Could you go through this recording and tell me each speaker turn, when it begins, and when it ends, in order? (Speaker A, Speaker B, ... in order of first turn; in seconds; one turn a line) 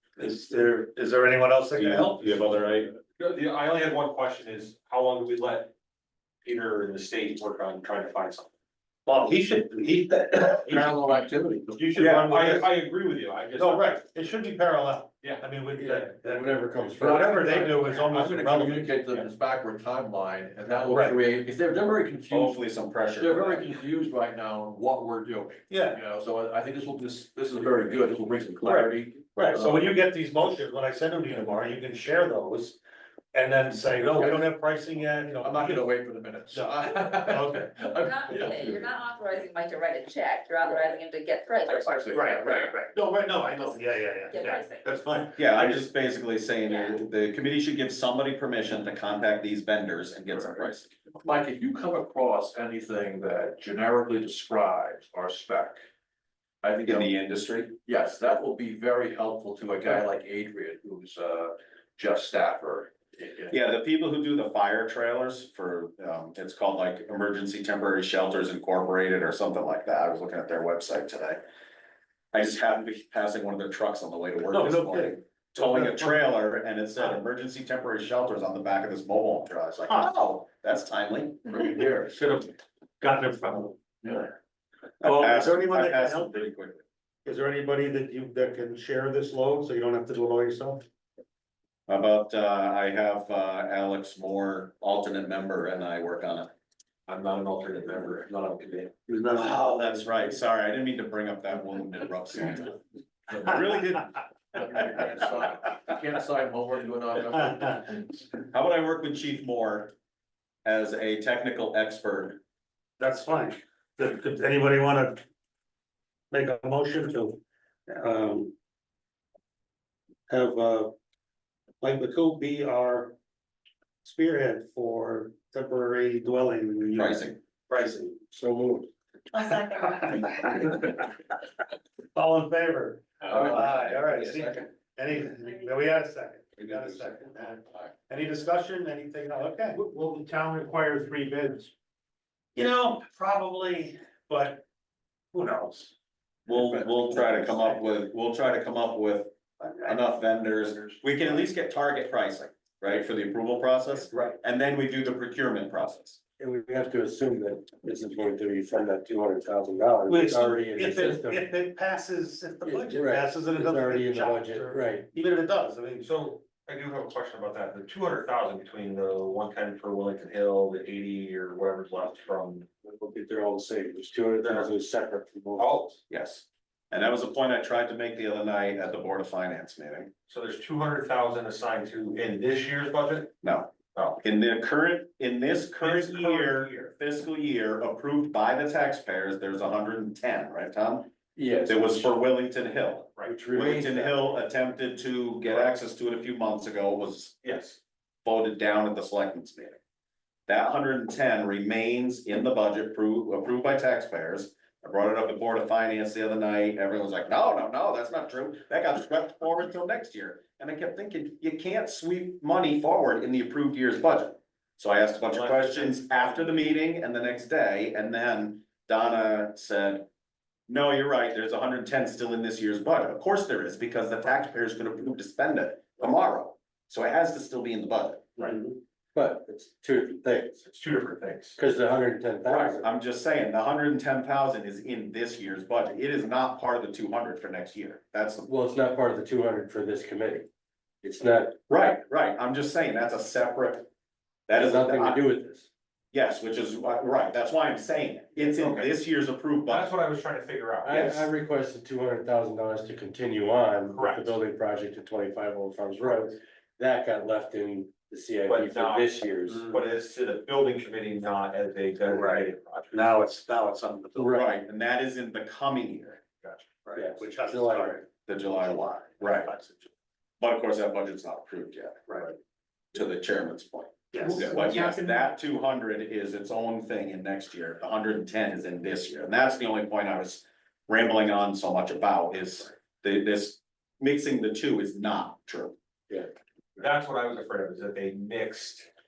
Speaker A: 0.2-2.4
Speaker B: 1.8-2.9
Speaker C: 3.1-5.7
Speaker C: 6.4-8.5
Speaker A: 9.1-10.8
Speaker D: 10.7-12.0
Speaker C: 10.7-10.9
Speaker C: 11.8-13.9
Speaker A: 11.8-12.7
Speaker A: 13.5-18.9
Speaker E: 15.7-17.5
Speaker D: 17.0-22.6
Speaker A: 20.9-21.2
Speaker B: 22.3-23.6
Speaker D: 23.1-29.9
Speaker A: 25.7-26.0
Speaker A: 28.6-32.8
Speaker A: 33.3-35.9
Speaker D: 34.1-38.9
Speaker A: 36.5-37.7
Speaker F: 38.0-42.1
Speaker D: 41.6-42.7
Speaker A: 42.1-45.8
Speaker F: 44.3-44.9
Speaker B: 45.4-50.9
Speaker F: 46.6-47.0
Speaker D: 50.3-50.6
Speaker D: 51.1-55.8
Speaker D: 56.6-57.1
Speaker B: 56.8-57.7
Speaker D: 57.8-63.5
Speaker B: 63.5-71.4
Speaker B: 72.3-81.7
Speaker A: 74.5-76.3
Speaker A: 81.5-84.2
Speaker D: 81.7-82.1
Speaker B: 85.0-86.8
Speaker A: 85.0-86.4
Speaker A: 87.2-90.8
Speaker B: 91.9-96.5
Speaker C: 97.1-99.0
Speaker A: 99.1-99.6
Speaker B: 99.3-105.0
Speaker D: 104.5-108.0
Speaker B: 108.5-109.9
Speaker B: 110.6-112.4
Speaker A: 113.0-115.2
Speaker A: 116.3-118.5
Speaker A: 120.3-120.9
Speaker A: 121.8-123.1
Speaker A: 124.0-128.2
Speaker B: 126.9-127.4
Speaker E: 128.3-128.9
Speaker A: 129.3-131.0
Speaker A: 132.1-141.7
Speaker D: 133.3-134.5
Speaker A: 142.5-144.6
Speaker A: 145.3-145.9
Speaker B: 146.5-156.2
Speaker A: 147.2-147.6
Speaker E: 156.4-161.4
Speaker A: 160.1-166.1
Speaker E: 162.6-165.1
Speaker C: 166.0-172.7
Speaker E: 172.8-175.8
Speaker C: 175.6-176.0
Speaker B: 176.1-180.1
Speaker C: 180.3-183.3
Speaker B: 183.4-191.1
Speaker C: 183.9-184.2
Speaker C: 185.8-186.8
Speaker E: 191.3-192.1
Speaker B: 191.7-197.3
Speaker E: 193.2-194.2
Speaker C: 197.4-197.8
Speaker B: 198.2-199.8
Speaker B: 200.5-220.1
Speaker C: 215.3-216.7
Speaker B: 220.7-228.3
Speaker E: 229.1-230.6
Speaker C: 230.6-231.6
Speaker E: 231.6-232.8
Speaker B: 232.4-238.5
Speaker E: 238.4-240.4
Speaker E: 241.0-241.6
Speaker B: 241.7-243.9
Speaker B: 244.5-245.2
Speaker E: 244.6-245.7
Speaker B: 246.1-249.9
Speaker C: 248.4-248.9
Speaker C: 249.7-251.0
Speaker E: 250.8-259.7
Speaker B: 250.9-251.2
Speaker C: 253.9-254.3
Speaker C: 258.5-263.1
Speaker A: 262.1-264.4
Speaker E: 264.1-264.4
Speaker B: 264.2-266.2
Speaker C: 266.4-266.7
Speaker A: 266.8-268.0
Speaker E: 266.9-268.0
Speaker B: 268.2-269.5
Speaker A: 268.6-269.9
Speaker B: 270.4-272.0
Speaker B: 272.9-285.7
Speaker A: 274.1-274.9
Speaker C: 286.8-288.9